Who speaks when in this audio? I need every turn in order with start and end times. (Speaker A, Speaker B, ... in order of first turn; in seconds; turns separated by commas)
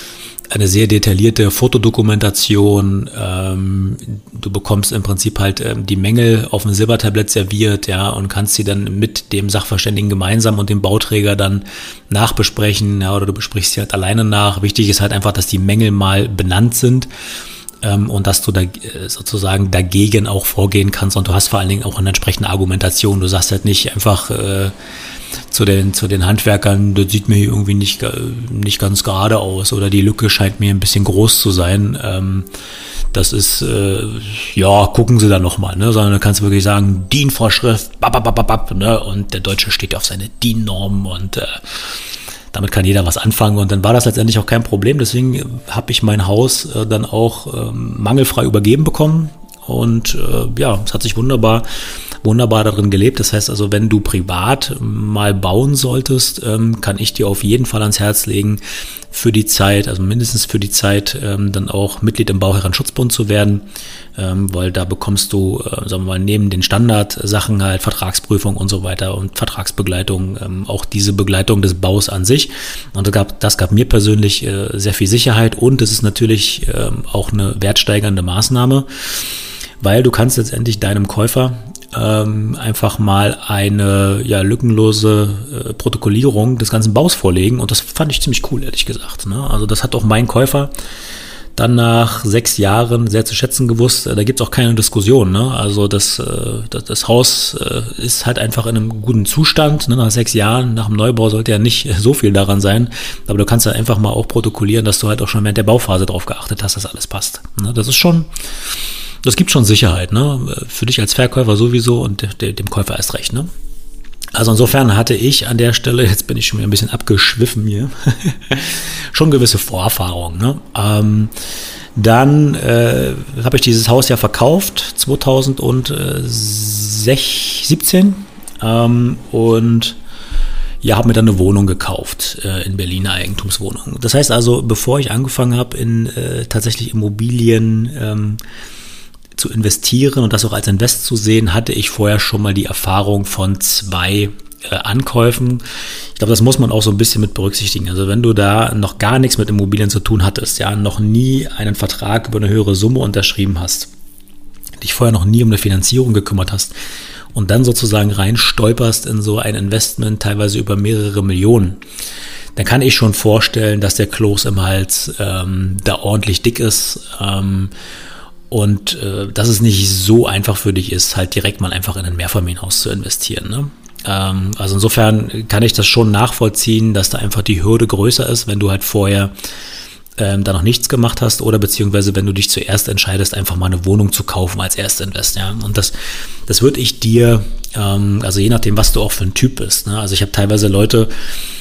Speaker A: 0.5-17.1, Speaker A: 17.8-24.7, Speaker A: 25.5-32.5, Speaker A: 33.1-42.0, Speaker A: 42.5-51.7, Speaker A: 52.2-58.6, Speaker A: 59.1-78.9, Speaker A: 79.8-90.7, Speaker A: 91.6-108.3, Speaker A: 109.2-113.5, Speaker A: 114.3-121.3, Speaker A: 122.0-130.0, Speaker A: 130.8-138.4, Speaker A: 139.4-145.6, Speaker A: 146.2-153.9, Speaker A: 154.8-156.7, Speaker A: 157.3-161.8, Speaker A: 162.6-167.7, Speaker A: 168.5-179.3, Speaker A: 180.2-185.9, Speaker A: 186.5-191.1